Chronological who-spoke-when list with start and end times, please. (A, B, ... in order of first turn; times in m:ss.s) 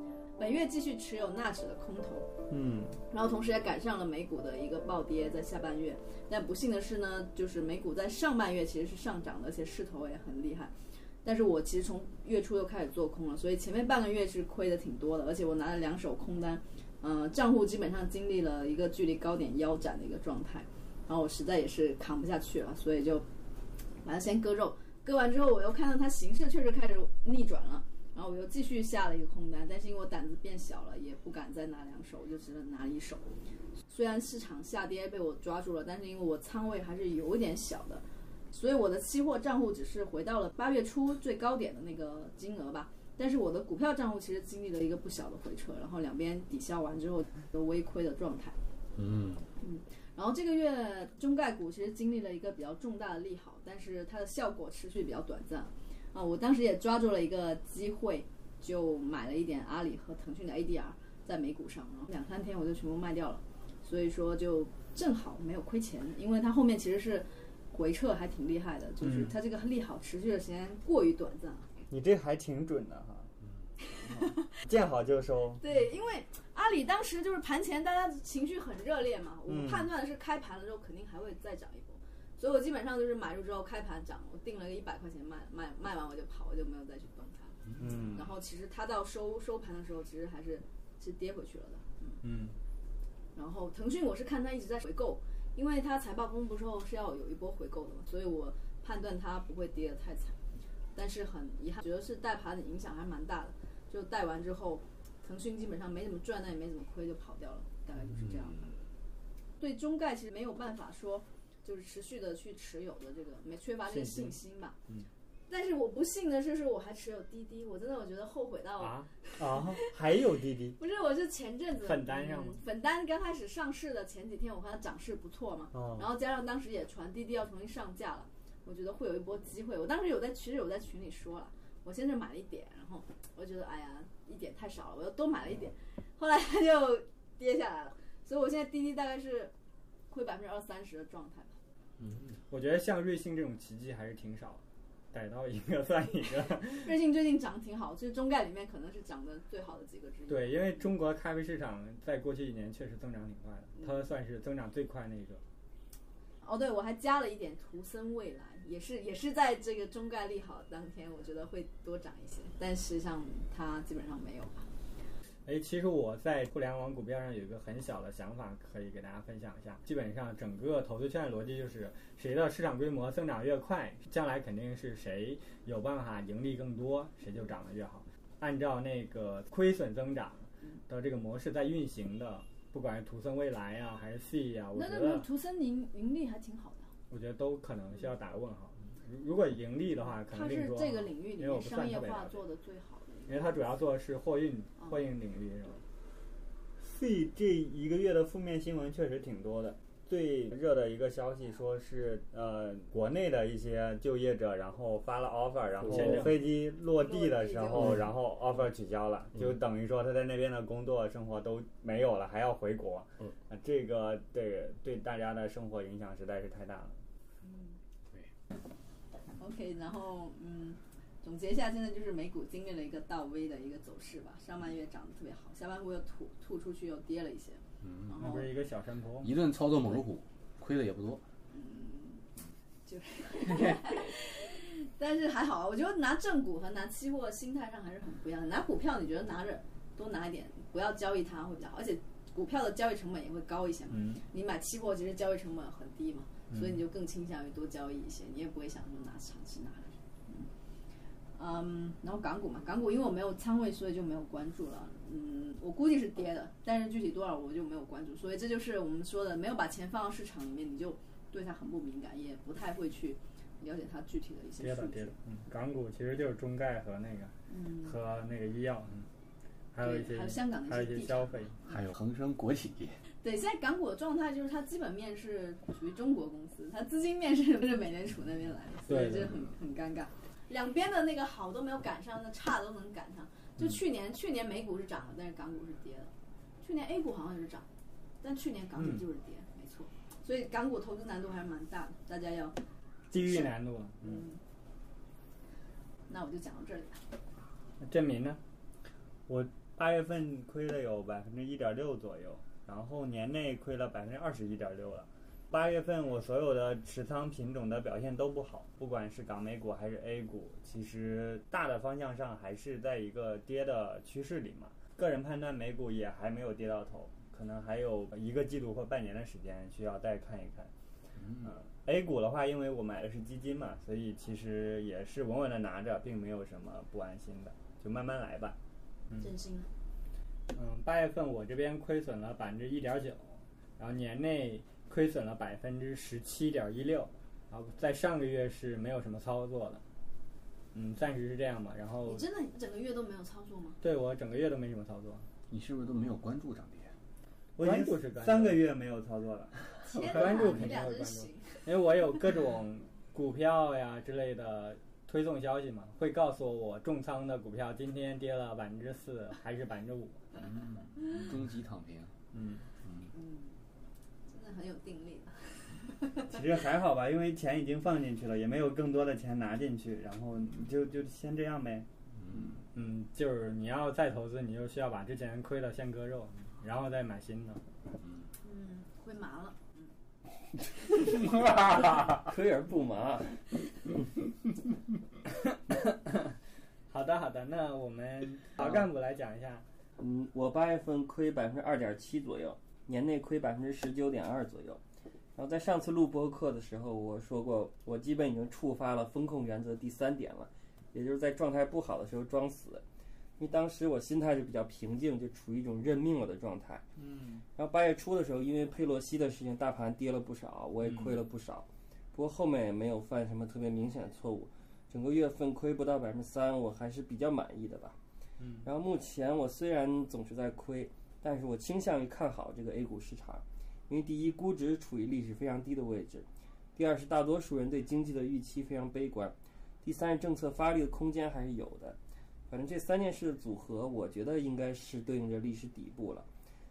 0:00.4-0:02.3 A
0:02.5-0:03.0 B
0:03.1-0:10.7 A
0:11.2-0:23.2 A
0:24.0-0:33.3 A
0:33.9-0:48.6 A
0:49.0-0:49.5 C
0:49.6-1:11.7 A
1:11.9-1:13.3 B
1:14.0-1:14.5 A
1:14.2-1:15.6 B
1:15.6-1:27.6 A
1:19.5-1:19.9 B
1:27.8-1:28.2 B
1:28.1-1:32.2 A
1:32.2-1:32.6 D
1:33.4-1:40.4 A
1:40.9-1:48.7 A
1:48.2-1:48.6 C
1:49.6-1:54.8 A
1:53.9-1:54.4 D
1:55.5-1:59.9 A
1:58.8-1:59.1 D
1:59.4-2:00.8 B
2:00.8-2:19.5 A
2:01.8-2:02.6 D
2:05.7-2:06.1 B
2:20.1-2:21.6 A
2:22.0-2:22.4 C
2:22.5-2:26.9 D
2:26.8-2:30.7 A
2:30.3-2:35.4 D
2:36.4-2:44.7 A
2:45.5-3:05.3 D
3:04.8-3:06.9 A
3:07.1-3:12.4 D
3:10.2-3:13.5 A
3:13.3-3:15.8 D
3:16.8-3:37.0 B
3:25.9-3:26.4 D
3:25.9-3:26.2 E
3:26.9-3:28.0 A
3:37.4-3:37.8 A
3:39.4-3:48.6 A
3:47.8-3:48.2 C
3:48.2-3:49.3 D
3:49.2-3:51.2 C
3:51.5-3:52.2 A
3:52.9-4:10.5 A
4:03.9-4:04.2 D
4:06.5-4:06.8 D
4:11.4-4:25.1 A
4:24.6-4:29.1 D
4:27.5-4:28.0 A
4:29.7-4:31.5 D
4:29.8-4:31.8 A
4:31.7-4:33.0 C
4:33.2-4:47.7 A
4:38.9-4:39.4 D
4:48.2-4:52.6 A
4:48.8-4:49.0 D
4:53.1-4:54.2 D
4:53.2-4:54.4 A
4:56.1-4:57.0 A
4:57.8-4:58.4 D
4:59.3-5:20.7 B
5:21.2-5:21.5 C
5:21.4-5:28.6 B
5:29.2-5:29.7 A
5:30.5-5:39.8 D
5:40.7-5:42.3 D
5:42.1-5:43.8 A
5:43.8-5:45.3 D
5:45.5-5:46.9 C
5:47.6-5:49.6 B
5:47.6-5:48.6 D
5:49.8-5:51.7 A
5:49.9-6:00.2 D
6:00.4-6:02.1 C
6:02.3-6:02.6 D
6:03.1-6:03.6 A
6:04.3-6:06.2 A
6:06.2-6:11.9 B
6:12.2-6:12.6 C
6:12.7-6:17.6 D
6:18.0-6:18.3 C
6:18.4-6:19.9 A
6:21.6-6:23.6 E
6:26.9-6:29.6 D
6:28.6-6:28.9 E
6:30.0-6:34.8 E
6:35.4-6:42.8 E
6:43.4-6:46.8 E
6:47.6-6:58.0 E
6:50.8-6:51.2 D
6:58.4-6:58.7 D
6:58.6-7:12.0 E
7:12.5-7:16.3 E